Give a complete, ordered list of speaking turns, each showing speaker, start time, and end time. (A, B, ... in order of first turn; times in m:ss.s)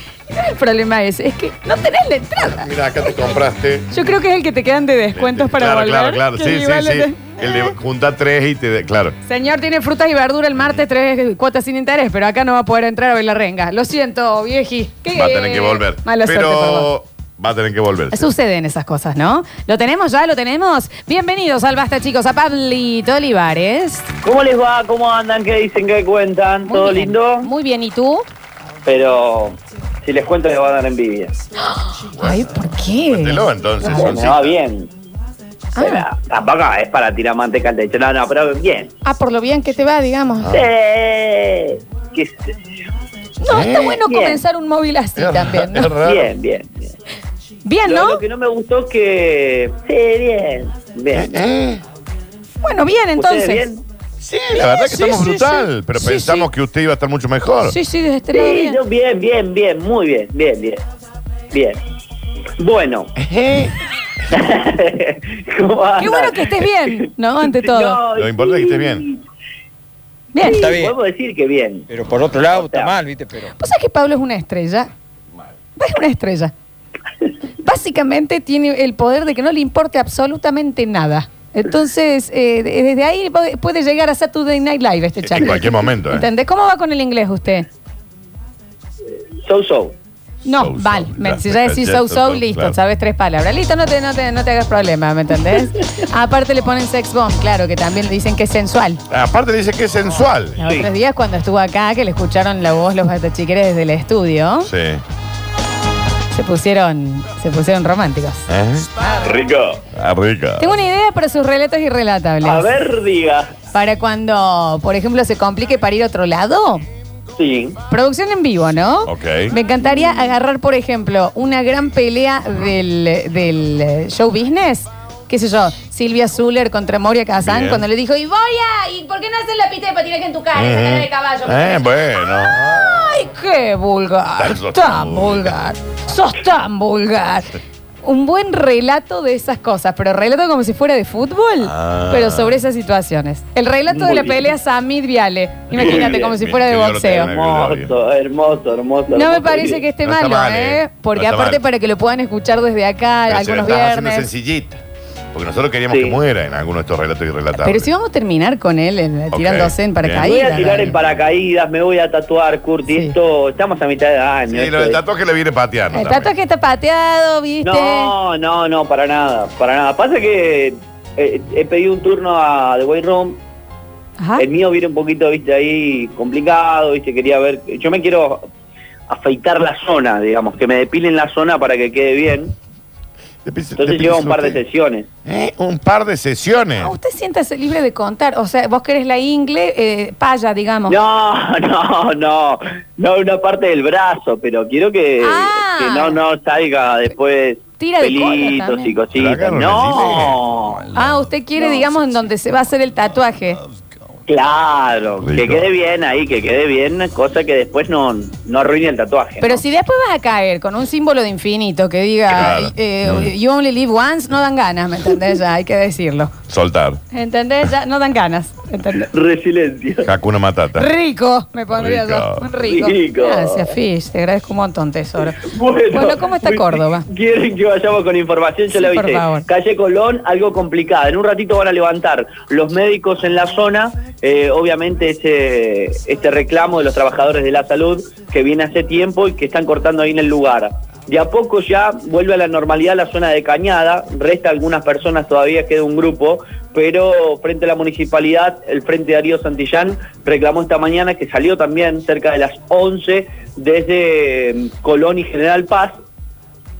0:00.3-0:02.7 A
0:02.5-0:03.9 B
0:03.9-0:07.7 A
0:05.1-0:09.2 B
0:09.2-0:16.9 A
0:15.1-0:18.2 B
0:18.1-0:24.0 A
0:24.2-0:27.5 C
0:26.7-0:28.2 A
0:28.8-0:31.3 C
0:31.7-0:34.0 A
0:32.1-0:34.6 B
0:33.8-0:34.9 C
0:35.8-0:36.0 A
0:35.8-0:38.9 C
0:39.0-0:40.5 A
0:40.4-0:40.7 B
0:40.5-0:42.5 C
0:43.4-0:45.9 A
0:43.4-0:44.0 B
0:44.0-0:44.4 C
0:45.2-0:46.3 B
0:46.0-0:46.9 C
0:47.6-0:48.2 A
0:47.8-0:51.4 C
0:51.1-0:51.8 B
0:52.6-0:53.7 A
0:53.2-0:53.8 C
0:54.2-0:57.7 B
0:54.5-0:56.5 A
0:57.6-0:58.8 A
0:58.3-1:00.8 C
1:01.5-1:01.8 C
1:02.6-1:03.1 C
1:03.2-1:03.7 B
1:04.3-1:09.2 C
1:06.0-1:08.0 A
1:08.1-1:09.1 B
1:10.3-1:10.6 A
1:10.4-1:11.8 C
1:10.4-1:10.9 D
1:11.9-1:13.5 D
1:12.5-1:13.0 C
1:13.6-1:14.9 A
1:15.8-1:16.5 A
1:17.6-1:27.7 A
1:25.2-1:26.3 B
1:29.4-1:29.9 C
1:30.4-1:39.0 A
1:30.5-1:32.8 B
1:39.1-1:40.6 B
1:40.6-1:44.7 A
1:44.6-1:45.0 B
1:46.3-1:48.4 A
1:48.5-1:48.9 B
1:49.0-1:49.2 A
1:49.2-1:49.8 C
1:49.9-1:50.7 B
1:50.6-1:52.6 A
1:52.4-1:53.5 C
1:53.7-1:56.8 A
1:57.4-1:57.8 C
1:57.9-2:17.5 A
1:59.0-1:59.5 B
2:07.4-2:07.8 B
2:10.5-2:13.2 B
2:14.4-2:15.7 B
2:18.0-2:27.3 A
2:21.6-2:22.6 B
2:23.9-2:24.4 C
2:25.7-2:27.9 B
2:25.8-2:26.4 C
2:27.1-2:29.8 C
2:29.1-2:34.3 A
2:30.0-2:31.6 B
2:33.3-2:34.8 B
2:35.3-2:37.9 B
2:35.9-2:36.2 C
2:37.6-2:40.9 A
2:39.3-2:41.2 B
2:40.2-2:45.0 C
2:44.5-2:46.3 B
2:45.9-2:48.1 A
2:47.6-2:53.4 C
2:54.2-2:54.4 A
2:54.4-2:58.5 C
2:59.1-3:02.5 C
3:03.4-3:04.6 B
3:03.8-3:05.1 C
3:05.2-3:06.9 B
3:06.8-3:11.0 A
3:10.9-3:20.8 C
3:15.2-3:16.2 A
3:17.8-3:18.9 A
3:19.1-3:20.4 B
3:20.9-3:23.6 A
3:24.3-3:29.6 C
3:25.2-3:25.7 B
3:29.4-3:36.3 A
3:32.3-3:33.3 B
3:36.5-3:37.0 B
3:37.1-3:39.1 A
3:39.0-3:40.1 C
3:40.0-3:40.9 B
3:40.8-3:45.4 A
3:41.7-3:42.5 B
3:42.6-3:43.7 C
3:45.4-4:16.0 C
3:45.9-3:47.0 A
3:48.7-3:49.4 A